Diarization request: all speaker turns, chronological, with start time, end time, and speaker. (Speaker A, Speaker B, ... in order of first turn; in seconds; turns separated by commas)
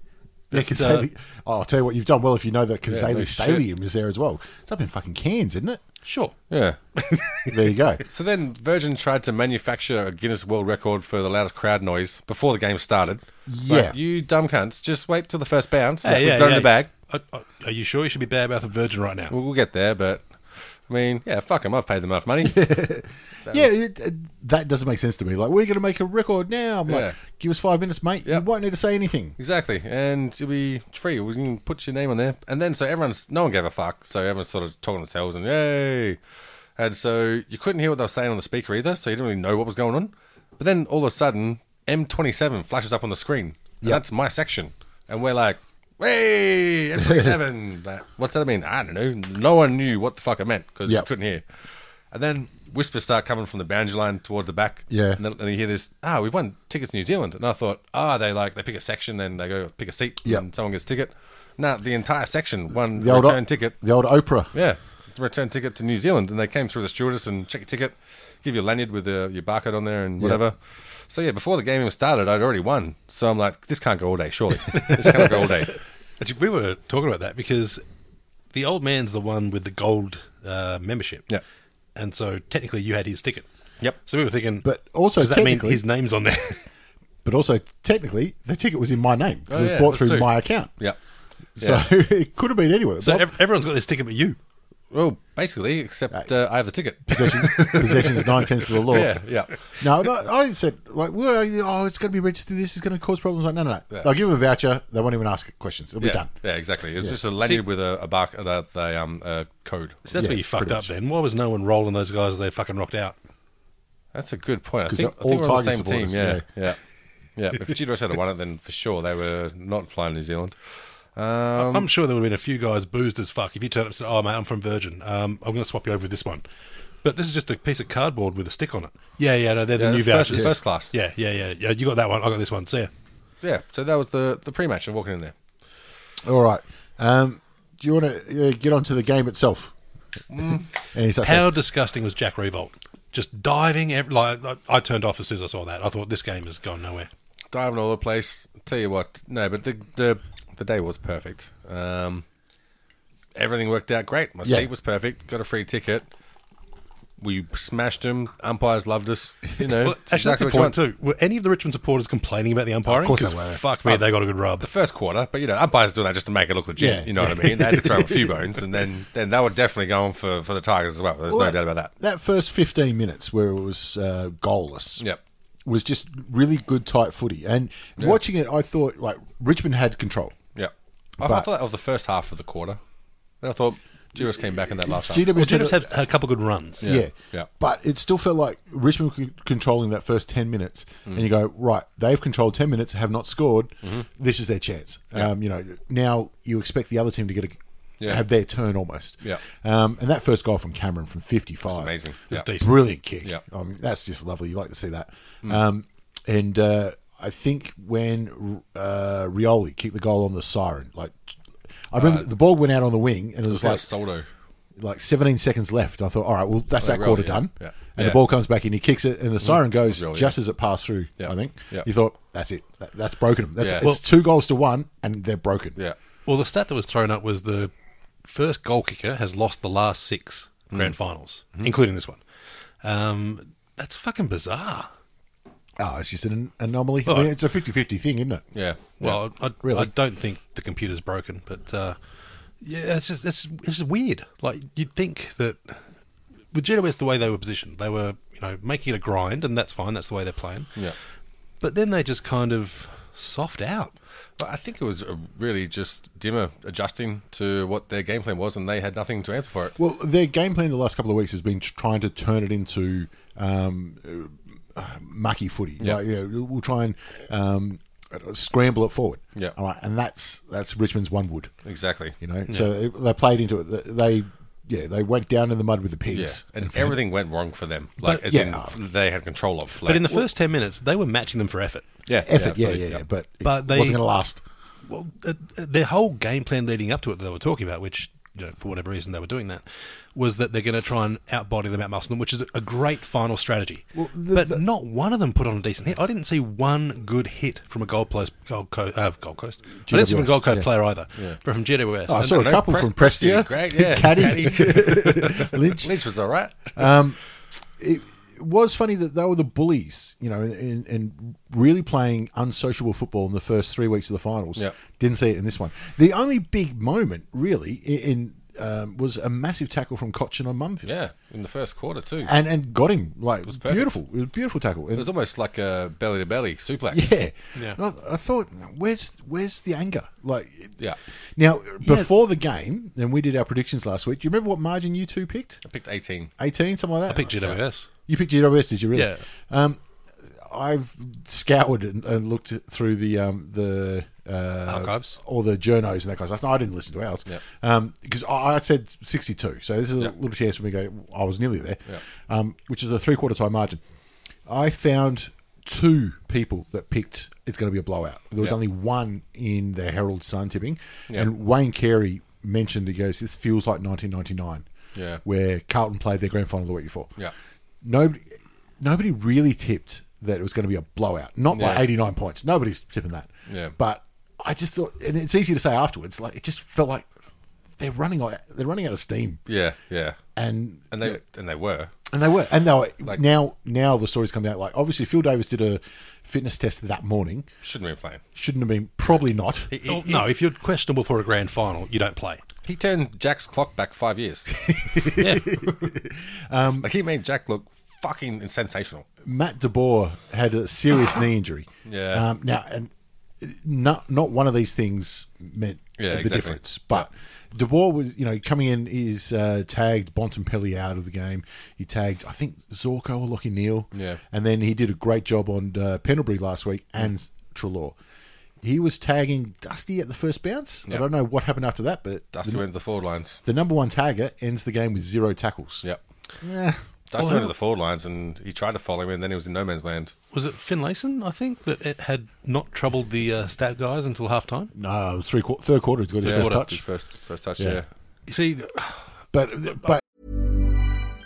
Speaker A: 0.5-5.8, Speaker B: 0.5-1.1, Speaker C: 2.9-3.6, Speaker B: 6.0-6.4, Speaker C: 6.5-6.8, Speaker A: 7.5-8.0, Speaker C: 8.1-16.9, Speaker A: 13.5-14.0, Speaker B: 16.0-19.3, Speaker C: 19.3-22.7, Speaker A: 22.4-29.4, Speaker C: 23.5-23.7, Speaker C: 26.9-27.2, Speaker C: 29.4-36.2, Speaker C: 36.8-63.8, Speaker A: 47.0-47.4, Speaker A: 54.9-55.2, Speaker A: 62.9-64.5, Speaker C: 64.5-75.8, Speaker B: 76.2-77.8, Speaker B: 78.5-81.2, Speaker B: 82.0-83.5, Speaker B: 84.0-86.7, Speaker A: 84.6-85.8, Speaker A: 87.2-90.8, Speaker C: 89.5-91.0, Speaker A: 91.6-93.3, Speaker C: 91.6-91.9, Speaker B: 93.0-94.4, Speaker C: 94.9-99.9, Speaker A: 97.1-106.3, Speaker C: 106.0-110.0, Speaker B: 110.1-113.2, Speaker A: 110.2-110.9, Speaker C: 114.1-116.8, Speaker A: 114.9-116.5, Speaker C: 117.4-121.9, Speaker B: 121.5-126.4, Speaker B: 127.0-132.9, Speaker C: 129.8-130.9, Speaker C: 133.4-135.3, Speaker A: 136.2-139.7, Speaker C: 140.3-140.7, Speaker A: 140.9-141.6, Speaker B: 141.2-147.1, Speaker C: 147.5-152.2, Speaker C: 153.3-156.1, Speaker A: 154.4-154.7, Speaker C: 157.2-160.8, Speaker B: 159.8-164.7, Speaker A: 162.9-163.6, Speaker C: 164.6-171.9, Speaker A: 166.8-168.4, Speaker A: 171.3-175.0, Speaker A: 175.7-180.4, Speaker C: 180.6-182.8, Speaker A: 181.2-181.5, Speaker C: 183.4-185.3, Speaker A: 184.2-185.9, Speaker B: 185.3-186.9, Speaker C: 186.8-187.5, Speaker A: 186.8-211.4, Speaker C: 198.0-198.2, Speaker C: 201.7-202.5, Speaker B: 202.3-202.8, Speaker A: 211.9-213.9, Speaker C: 211.9-212.3, Speaker C: 213.5-214.3, Speaker A: 214.8-225.8, Speaker C: 216.8-218.2, Speaker C: 219.4-220.4, Speaker C: 221.2-221.9, Speaker C: 223.6-223.9, Speaker B: 226.3-227.7, Speaker B: 228.2-232.2, Speaker B: 232.8-234.9, Speaker A: 235.8-238.4, Speaker B: 237.1-237.3, Speaker C: 238.5-239.2, Speaker B: 239.0-242.0, Speaker A: 239.6-239.9, Speaker B: 242.6-245.9, Speaker B: 246.5-250.8, Speaker B: 251.6-254.0, Speaker C: 254.4-259.8, Speaker A: 259.8-271.5, Speaker C: 271.6-272.1, Speaker A: 272.2-277.0, Speaker C: 276.1-280.2, Speaker A: 278.2-278.7, Speaker B: 279.8-281.9, Speaker C: 282.1-283.0, Speaker A: 282.2-284.4, Speaker B: 283.4-284.0, Speaker B: 284.9-302.4, Speaker A: 293.9-294.6, Speaker A: 299.8-300.7, Speaker A: 302.1-305.9, Speaker C: 302.2-306.9, Speaker A: 306.8-307.2, Speaker A: 307.8-320.9, Speaker C: 320.8-322.4, Speaker A: 322.2-325.1, Speaker C: 323.5-324.0, Speaker C: 324.9-327.2, Speaker A: 326.9-330.9, Speaker B: 327.6-327.8, Speaker A: 331.4-335.6, Speaker B: 331.8-332.1, Speaker C: 335.7-336.3, Speaker A: 336.4-353.8, Speaker B: 337.1-337.9, Speaker B: 338.9-339.2, Speaker B: 344.7-345.2, Speaker A: 354.5-364.7, Speaker C: 364.9-365.2, Speaker A: 365.2-367.2, Speaker A: 367.8-377.1, Speaker C: 371.5-371.9, Speaker C: 373.5-373.8, Speaker A: 377.8-379.4, Speaker C: 379.5-380.2, Speaker A: 380.4-381.2, Speaker C: 380.9-381.9, Speaker A: 382.1-387.5, Speaker C: 387.6-388.2, Speaker A: 388.4-389.8, Speaker C: 389.7-390.3, Speaker B: 389.9-392.4, Speaker C: 392.6-394.8, Speaker A: 394.6-396.9, Speaker B: 395.2-395.5, Speaker C: 396.8-399.1, Speaker A: 399.2-418.0, Speaker C: 401.9-402.3, Speaker C: 406.0-407.1, Speaker C: 413.9-414.2, Speaker A: 418.6-422.7, Speaker C: 422.3-423.4, Speaker A: 423.4-425.9, Speaker A: 426.4-427.4, Speaker C: 427.1-430.1, Speaker B: 427.2-427.5, Speaker B: 430.3-434.7, Speaker A: 434.7-436.8, Speaker C: 436.2-437.9, Speaker B: 436.3-436.7, Speaker A: 437.6-437.8, Speaker B: 438.3-439.0, Speaker A: 439.3-440.0